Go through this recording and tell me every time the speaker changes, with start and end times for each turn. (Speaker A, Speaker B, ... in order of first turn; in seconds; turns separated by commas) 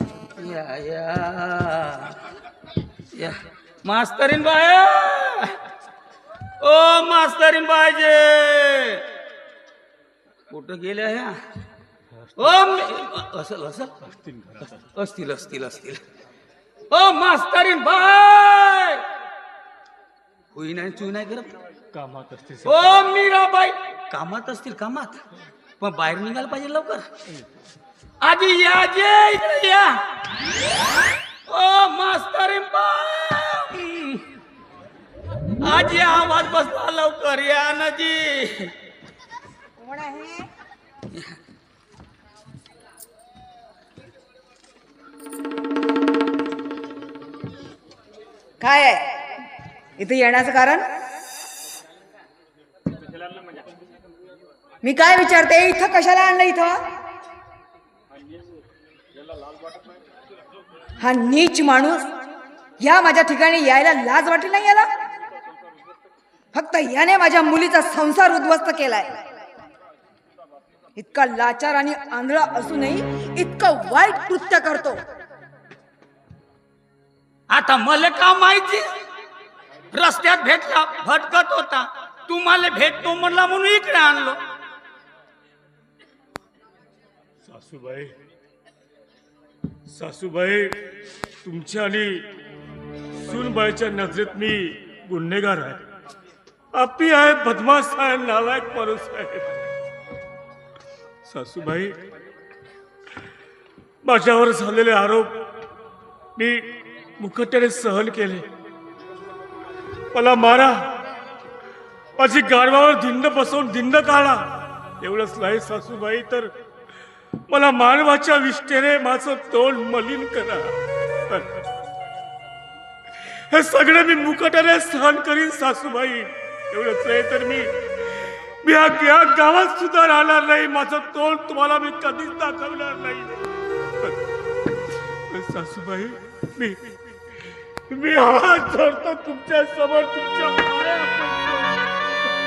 Speaker A: 0.4-2.2, Speaker A: 3.1-5.5, Speaker A: 6.6-9.0, Speaker A: 10.5-11.4, Speaker A: 12.4-14.0, Speaker B: 14.1-14.8, Speaker A: 14.9-16.0, Speaker A: 16.9-19.0, Speaker A: 20.5-21.5, Speaker B: 21.9-23.1, Speaker A: 22.6-25.2, Speaker A: 25.8-27.1, Speaker A: 28.2-30.0, Speaker A: 31.5-34.3, Speaker A: 35.6-38.7, Speaker C: 39.8-40.4, Speaker C: 48.6-49.3, Speaker C: 50.0-50.9, Speaker C: 54.8-56.8, Speaker C: 61.0-62.1, Speaker C: 62.8-64.9, Speaker C: 66.5-69.2, Speaker C: 71.0-75.0, Speaker A: 77.5-78.9, Speaker A: 79.9-84.4, Speaker B: 87.4-88.1, Speaker B: 89.9-90.8, Speaker B: 91.4-92.3, Speaker B: 93.2-95.8, Speaker B: 96.7-99.5, Speaker B: 101.2-102.0, Speaker B: 104.0-105.4, Speaker B: 106.3-108.5, Speaker B: 110.1-110.9, Speaker B: 112.2-114.5, Speaker B: 115.0-116.5, Speaker B: 117.5-120.7, Speaker B: 123.5-127.7, Speaker B: 128.6-133.4, Speaker B: 135.3-136.8, Speaker B: 137.9-141.8